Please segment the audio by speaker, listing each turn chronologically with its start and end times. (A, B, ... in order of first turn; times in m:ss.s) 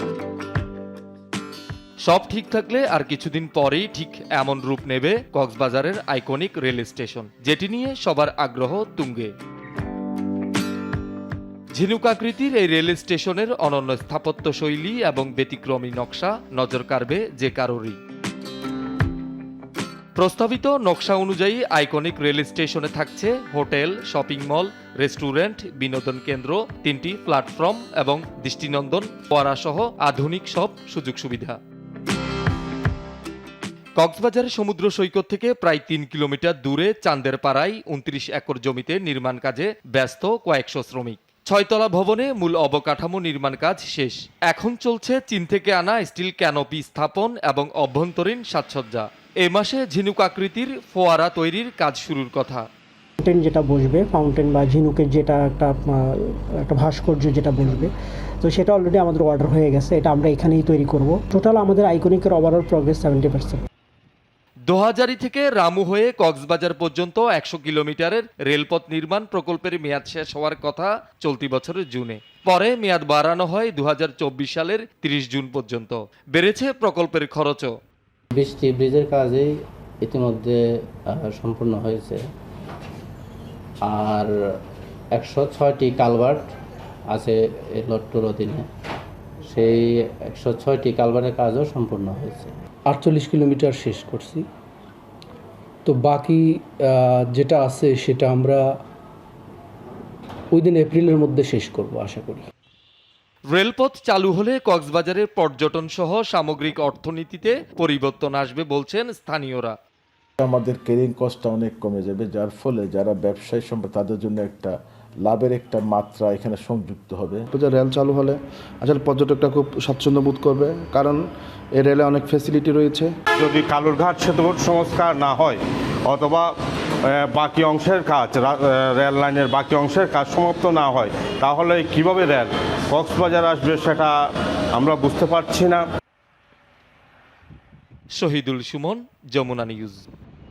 0:02.0-0:09.3 A
0:11.7-0:18.0 A
0:20.2-0:31.6 A
0:34.0-0:52.6 A
0:53.2-1:03.7 B
1:04.7-1:17.8 A
1:18.3-1:22.2 C
1:23.8-1:24.3 C
1:25.1-1:26.5 C
1:27.1-1:28.7 C
1:29.5-1:32.5 C
1:32.9-1:33.9 D
1:37.3-1:38.5 D
1:40.6-1:42.4 D
1:43.5-1:49.8 A
1:50.4-1:57.4 E
1:57.5-2:01.2 F
2:01.7-2:03.1 F
2:03.4-2:06.5 G
2:07.0-2:14.1 G
2:14.7-2:15.8 G
2:18.2-2:20.0 A